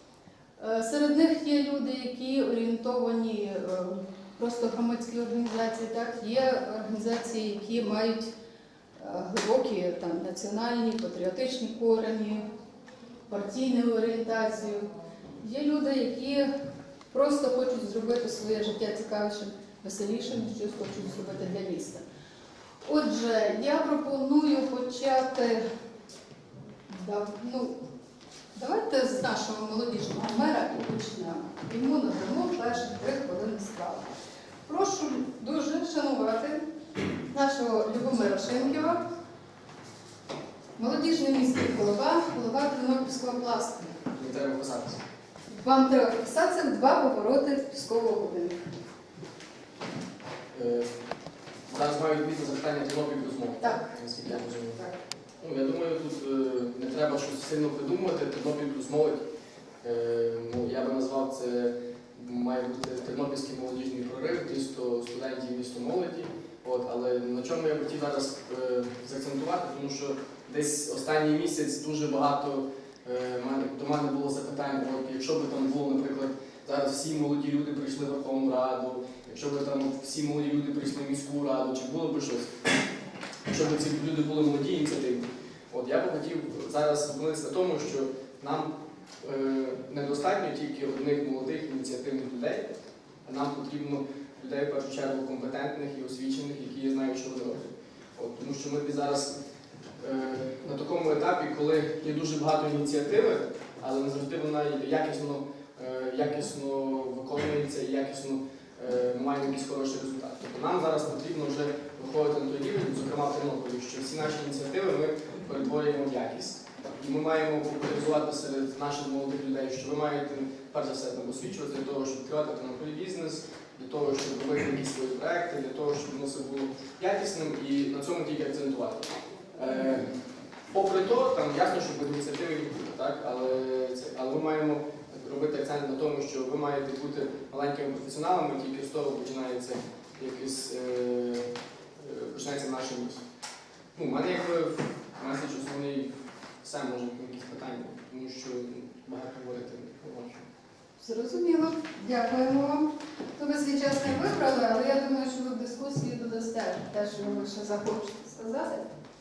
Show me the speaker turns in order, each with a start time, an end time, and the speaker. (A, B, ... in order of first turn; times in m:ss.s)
0:00.6-0:08.3 A
0:09.0-0:12.5 A
0:13.3-0:14.9 A
0:15.4-0:16.5 A
0:17.1-0:22.0 A
0:22.8-0:25.6 A
0:26.9-0:27.8 A
0:28.6-0:34.1 A
0:34.7-0:36.6 A
0:37.3-0:39.0 A
0:40.8-0:43.9 A
0:44.1-0:45.0 B
0:45.5-0:48.6 A
0:50.5-0:50.9 B
0:51.7-0:54.9 B
0:53.6-0:54.9 A
0:55.4-0:59.2 B
0:59.8-1:22.6 B
1:23.5-1:28.7 B
1:29.2-1:32.7 B
1:33.2-1:39.4 B
1:40.0-2:10.1 B
2:10.7-2:23.2 B
2:24.0-2:30.4 B
2:31.0-2:38.9 A